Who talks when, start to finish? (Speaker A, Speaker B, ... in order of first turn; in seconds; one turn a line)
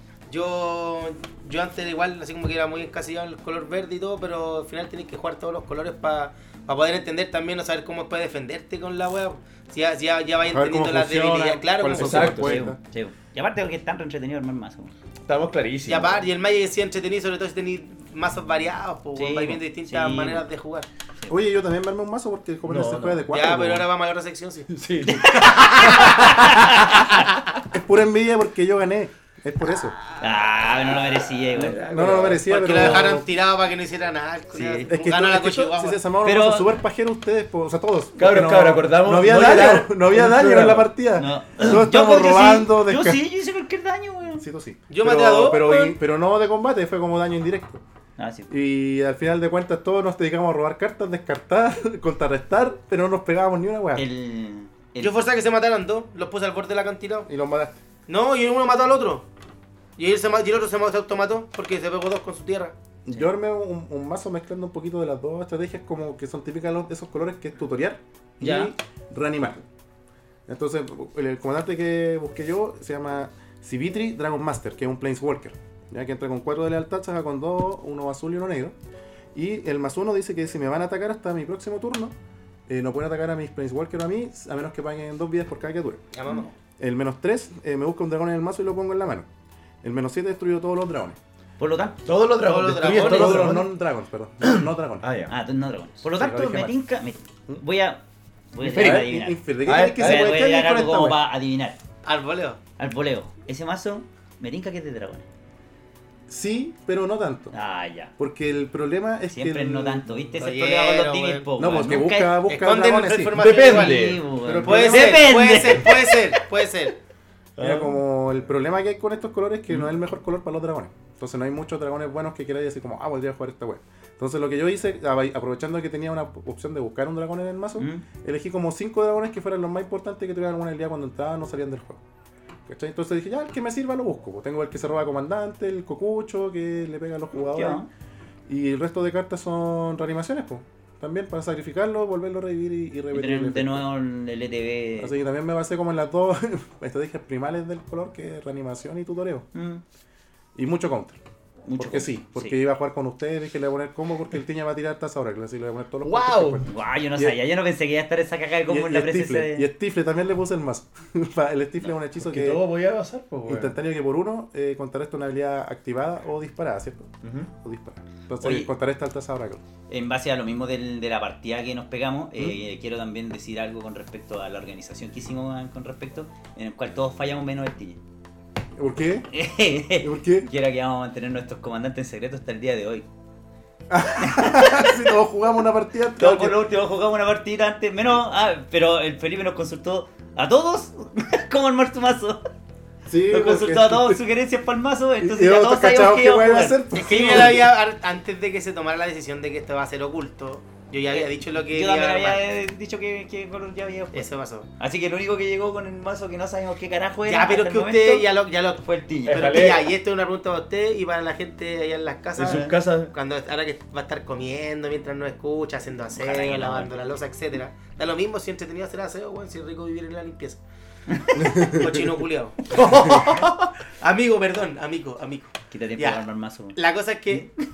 Speaker A: 0.3-12.3
Speaker B: 10.5-12.8
Speaker C: 11.9-12.7
Speaker D: 12.1-14.9
Speaker C: 15.3-16.3
Speaker A: 15.9-20.9
Speaker D: 19.1-20.4
Speaker B: 21.3-23.9
Speaker C: 22.7-23.3
Speaker A: 23.3-24.7
Speaker C: 24.7-27.3
Speaker D: 25.1-27.2
Speaker B: 27.7-30.0
Speaker D: 30.2-31.8
Speaker C: 31.5-33.2
Speaker B: 31.9-33.2
Speaker A: 32.5-36.0
Speaker D: 34.5-34.9
Speaker B: 34.9-43.2
Speaker D: 36.2-36.7
Speaker C: 38.2-40.9
Speaker D: 41.2-44.5
Speaker B: 44.4-47.8
Speaker A: 44.9-46.0
Speaker D: 48.2-48.5
Speaker B: 48.5-54.0
Speaker D: 54.0-55.2
Speaker A: 55.0-57.3
Speaker B: 57.3-57.8
Speaker A: 58.1-59.3
Speaker A: 60.0-62.8
Speaker B: 63.0-69.6
Speaker D: 68.4-68.7
Speaker B: 70.5-78.8
Speaker B: 79.3-82.1
Speaker B: 82.7-86.0
Speaker A: 86.1-86.5
Speaker B: 86.8-89.3
Speaker B: 89.8-91.2
Speaker D: 91.6-92.0
Speaker C: 92.0-93.7
Speaker A: 92.4-93.5
Speaker B: 92.7-95.0
Speaker C: 94.4-95.3
Speaker D: 95.3-98.0
Speaker B: 96.0-96.8
Speaker D: 98.5-99.4
Speaker C: 98.6-99.1
Speaker B: 98.7-101.2
Speaker C: 99.7-100.3
Speaker D: 100.0-101.8
Speaker A: 102.0-102.6
Speaker D: 102.8-105.3
Speaker B: 106.3-107.5
Speaker D: 107.5-108.1
Speaker B: 108.2-110.1
Speaker D: 109.3-112.5
Speaker A: 110.4-111.5
Speaker B: 111.6-113.4
Speaker A: 112.5-117.0
Speaker C: 113.4-114.2
Speaker D: 113.6-116.2
Speaker B: 114.4-115.6
Speaker C: 117.6-118.0
Speaker B: 117.6-132.0
Speaker D: 127.8-128.0
Speaker B: 132.7-137.8
Speaker D: 137.4-137.9
Speaker B: 138.5-143.8
Speaker D: 143.1-145.1
Speaker B: 145.0-149.5
Speaker D: 149.5-149.8
Speaker B: 150.6-151.2
Speaker D: 151.7-152.6
Speaker B: 151.8-157.3
Speaker C: 156.0-156.7
Speaker D: 156.7-159.7
Speaker B: 158.7-162.6
Speaker C: 162.2-163.8
Speaker B: 163.5-169.6
Speaker C: 167.2-167.5
Speaker D: 168.4-168.7
Speaker D: 169.9-178.0
Speaker B: 178.8-179.3
Speaker D: 179.3-183.1
Speaker B: 180.0-180.5
Speaker B: 183.9-186.6
Speaker D: 184.2-184.8
Speaker D: 186.2-192.5
Speaker B: 193.1-194.2
Speaker D: 193.3-197.7
Speaker B: 195.2-197.7
Speaker A: 196.9-202.4
Speaker D: 201.1-209.6
Speaker A: 204.1-204.7
Speaker A: 207.2-220.6
Speaker C: 209.3-209.9
Speaker C: 212.4-213.1
Speaker D: 216.2-216.9
Speaker D: 221.1-221.8
Speaker B: 221.4-221.8
Speaker A: 221.6-222.7
Speaker C: 222.7-223.7
Speaker A: 224.0-227.5
Speaker D: 225.7-226.8